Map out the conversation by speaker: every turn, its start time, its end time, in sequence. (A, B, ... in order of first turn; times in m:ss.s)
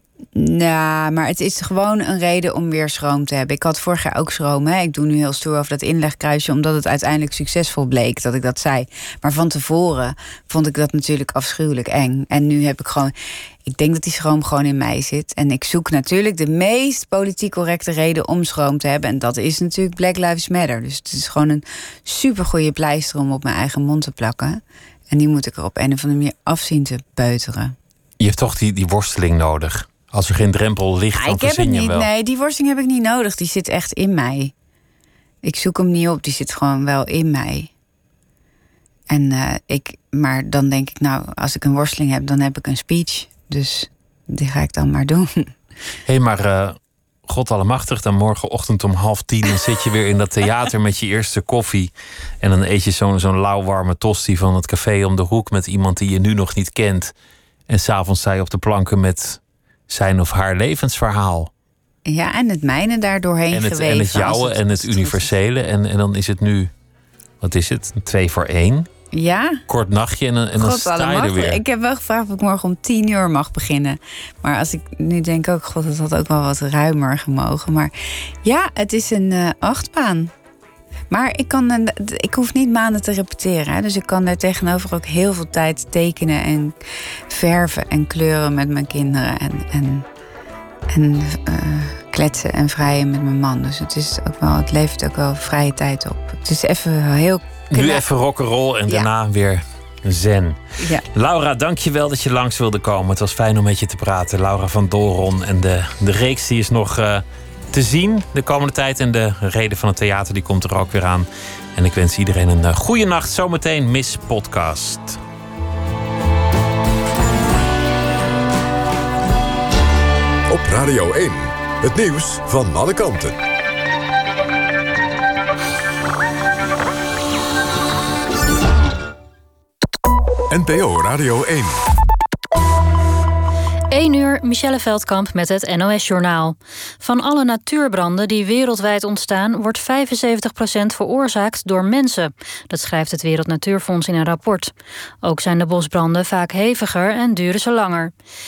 0:00.3-0:13.1 A
0:13.6-0:27.7 A
0:28.2-0:32.1 B
0:31.1-0:34.5 A
0:35.4-0:37.7 A
0:39.1-0:45.5 A
0:46.1-0:57.1 B
0:57.7-1:01.5 B
1:02.0-1:05.3 A
1:03.5-1:06.7 B
1:07.4-1:08.9 B
1:09.1-1:09.6 A
1:09.7-1:11.6 B
1:10.6-1:17.9 A
1:18.4-1:20.3 A
1:21.1-1:26.7 A
1:27.3-1:30.0 A
1:30.9-1:38.0 A
1:37.7-1:40.6 B
1:40.8-1:41.0 A
1:41.1-1:55.2 B
2:00.5-2:03.4 C
2:10.5-2:11.9 C
2:13.9-2:28.1 D